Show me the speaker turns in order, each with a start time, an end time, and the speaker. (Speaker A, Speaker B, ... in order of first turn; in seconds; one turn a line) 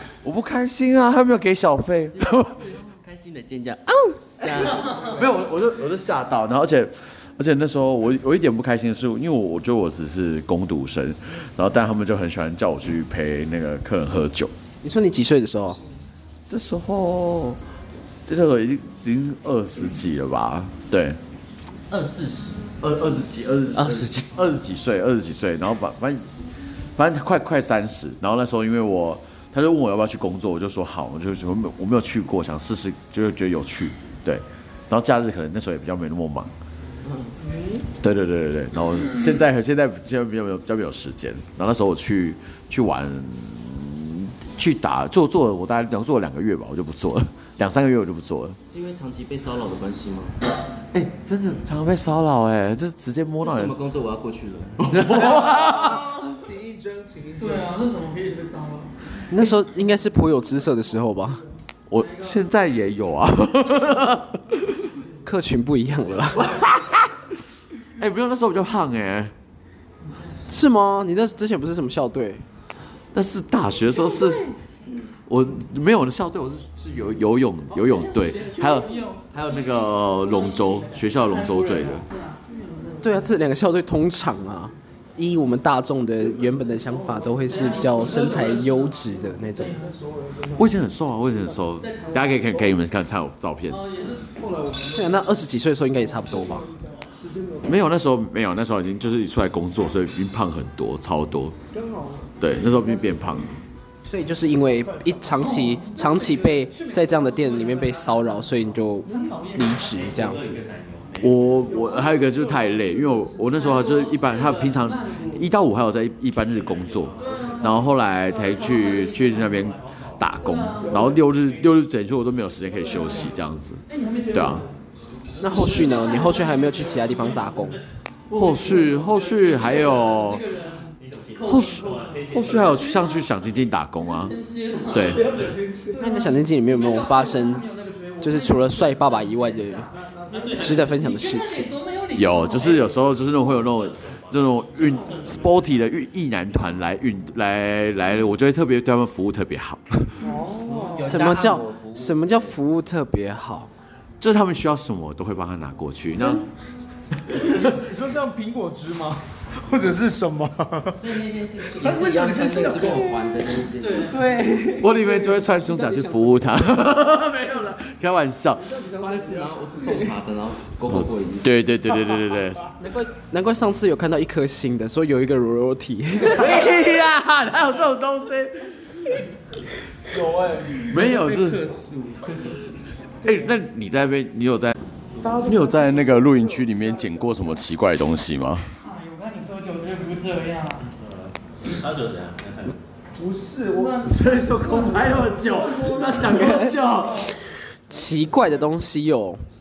Speaker A: 0.2-2.7
Speaker B: 2.1-5.2
Speaker A: 4.8-14.5
Speaker C: 14.8-15.8
Speaker A: 16.5-17.6
Speaker A: 18.3-21.2
Speaker B: 21.9-22.7
Speaker A: 22.8-26.2
Speaker B: 23.8-24.2
Speaker A: 27.0-36.5
Speaker B: 37.1-37.9
Speaker A: 38.0-48.6
Speaker B: 48.7-50.4
Speaker A: 50.9-53.8
Speaker B: 53.4-55.4
Speaker A: 54.8-56.1
Speaker D: 55.1-57.7
Speaker E: 57.4-58.9
Speaker C: 59.3-61.4
Speaker A: 61.9-64.8
Speaker E: 62.0-62.4
Speaker C: 65.2-66.5
Speaker A: 66.3-67.1
Speaker A: 68.0-69.3
Speaker C: 70.5-72.4
Speaker A: 73.1-74.5
Speaker A: 75.3-82.0
Speaker E: 78.0-78.9
Speaker E: 79.4-82.5
Speaker C: 83.0-89.8
Speaker D: 86.8-88.5
Speaker E: 87.5-89.9
Speaker D: 89.1-90.8
Speaker A: 90.6-93.8
Speaker E: 91.8-92.6
Speaker E: 93.7-94.3
Speaker D: 94.3-95.5
Speaker C: 94.9-96.7
Speaker D: 96.3-97.8
Speaker A: 97.7-101.6
Speaker D: 101.7-102.3
Speaker A: 102.4-103.6
Speaker C: 104.1-110.6
Speaker D: 104.8-105.4
Speaker E: 105.3-109.8
Speaker F: 109.8-111.7
Speaker A: 111.2-124.7
Speaker E: 111.7-115.5
Speaker F: 116.5-117.9
Speaker E: 117.2-119.8
Speaker F: 119.7-120.4
Speaker E: 120.4-121.1
Speaker D: 120.8-121.2
Speaker F: 121.3-121.8
Speaker E: 122.8-123.3
Speaker E: 123.9-124.7
Speaker C: 125.4-127.8
Speaker E: 125.5-127.4
Speaker F: 127.5-127.7
Speaker E: 128.3-135.3
Speaker A: 128.3-130.4
Speaker F: 131.0-132.9
Speaker A: 131.4-134.4
Speaker A: 134.9-135.2
Speaker D: 134.9-136.3
Speaker F: 135.2-135.5
Speaker E: 135.9-140.0
Speaker C: 136.0-137.7
Speaker C: 138.2-139.9
Speaker D: 140.0-140.8
Speaker F: 140.3-141.1
Speaker C: 140.6-141.7
Speaker E: 140.8-142.9
Speaker A: 142.2-150.3
Speaker F: 143.1-145.9
Speaker D: 150.2-151.2
Speaker B: 150.4-152.6
Speaker C: 151.0-153.7
Speaker A: 154.2-156.4
Speaker A: 157.3-157.7
Speaker D: 157.5-163.3
Speaker E: 161.1-162.1
Speaker B: 161.2-164.3
Speaker C: 162.3-163.0
Speaker E: 163.8-164.2
Speaker D: 164.0-165.1
Speaker A: 164.8-168.7
Speaker C: 165.5-166.6
Speaker D: 168.6-170.0
Speaker B: 169.0-171.6
Speaker A: 170.9-172.7
Speaker C: 172.8-176.5
Speaker A: 176.3-178.7
Speaker D: 180.1-181.0
Speaker A: 180.9-181.6
Speaker B: 181.0-182.6
Speaker A: 183.2-184.7
Speaker D: 183.2-183.5
Speaker D: 185.2-187.7
Speaker A: 185.4-188.7
Speaker E: 188.8-190.8
Speaker F: 191.0-192.8
Speaker D: 193.2-195.3
Speaker E: 193.7-197.1
Speaker A: 194.1-197.3
Speaker C: 196.3-196.8
Speaker C: 197.9-199.4